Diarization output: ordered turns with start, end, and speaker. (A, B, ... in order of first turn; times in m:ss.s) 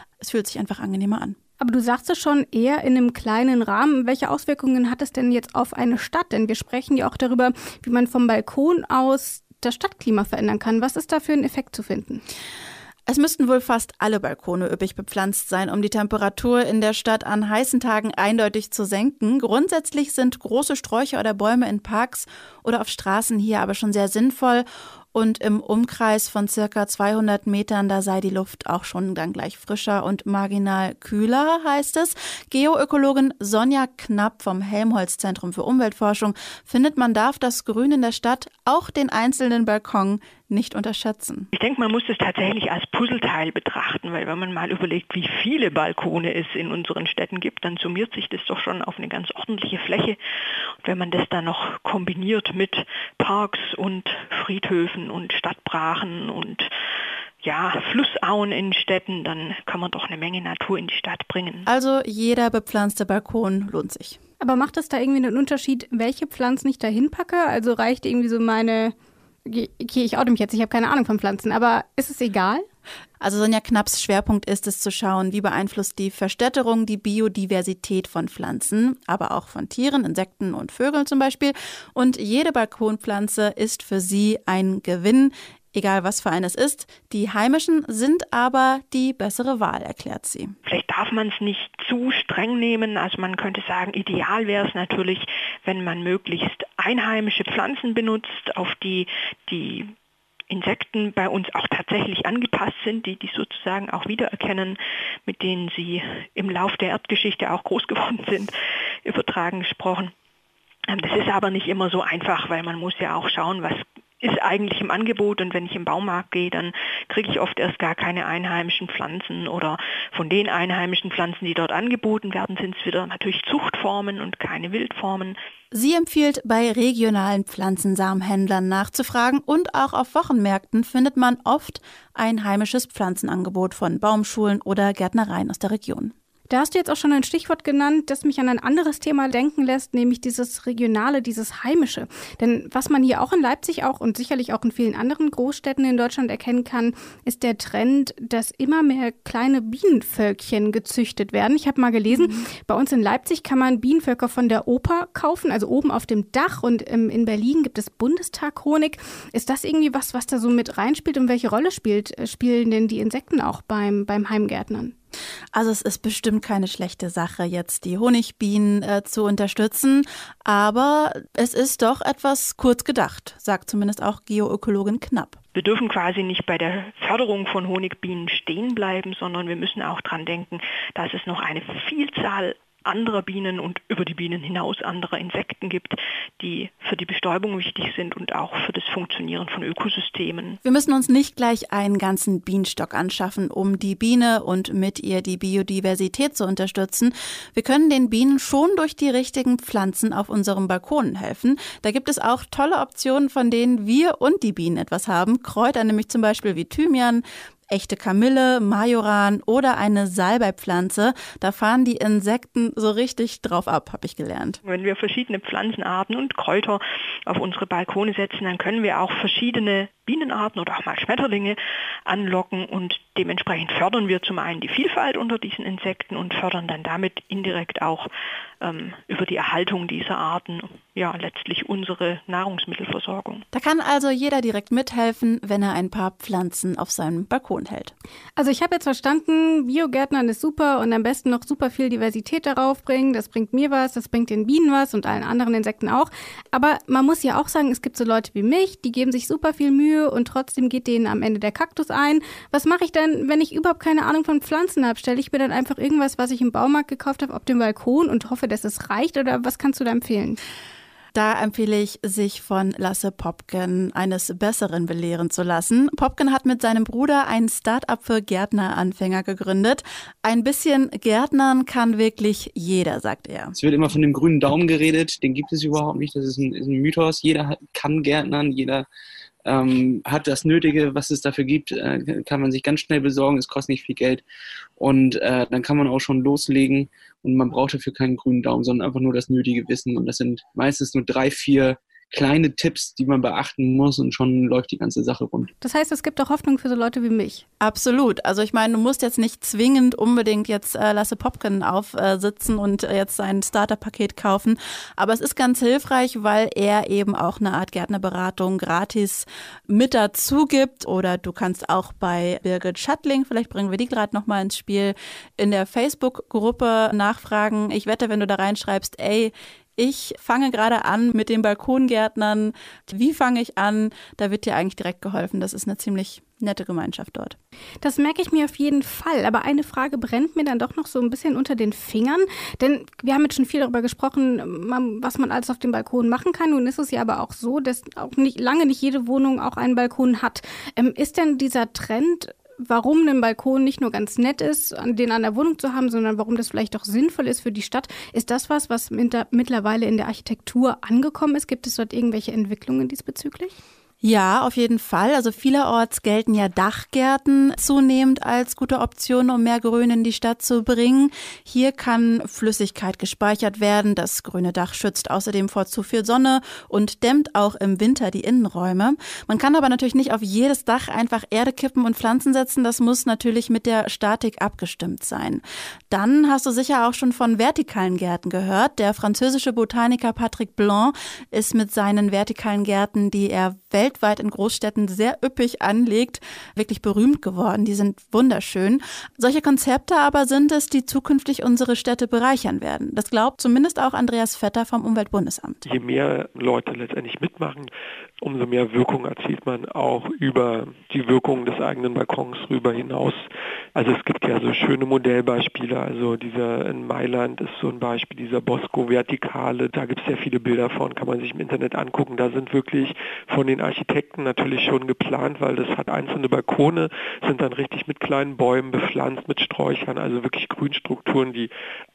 0:00.2-0:01.4 A
0:01.6-0:12.2 B
0:13.1-0:41.5 A
0:41.5-0:50.2 C
0:50.8-0:56.7 C
0:57.4-1:01.7 C
1:01.6-1:04.2 A
1:04.4-1:12.6 B
1:13.2-1:30.5 A
1:30.6-1:39.9 C
1:40.5-1:48.5 C
1:49.0-1:50.1 C
1:50.9-2:05.4 C
2:05.7-2:16.1 A
2:16.5-2:44.9 B
2:45.5-2:55.4 A
2:55.5-3:10.6 C
3:10.6-3:34.6 A
3:34.6-3:48.1 C
3:48.6-3:53.4 C
3:53.5-3:57.9 A
3:58.4-4:20.4 B
4:21.1-4:33.5 A
4:33.6-4:38.8 D
4:39.4-4:44.2 D
4:44.8-4:55.5 D
4:55.6-4:57.4 B
4:57.6-5:27.4 A
5:27.8-5:53.5 B
5:54.0-6:35.6 A
6:35.6-7:01.5 E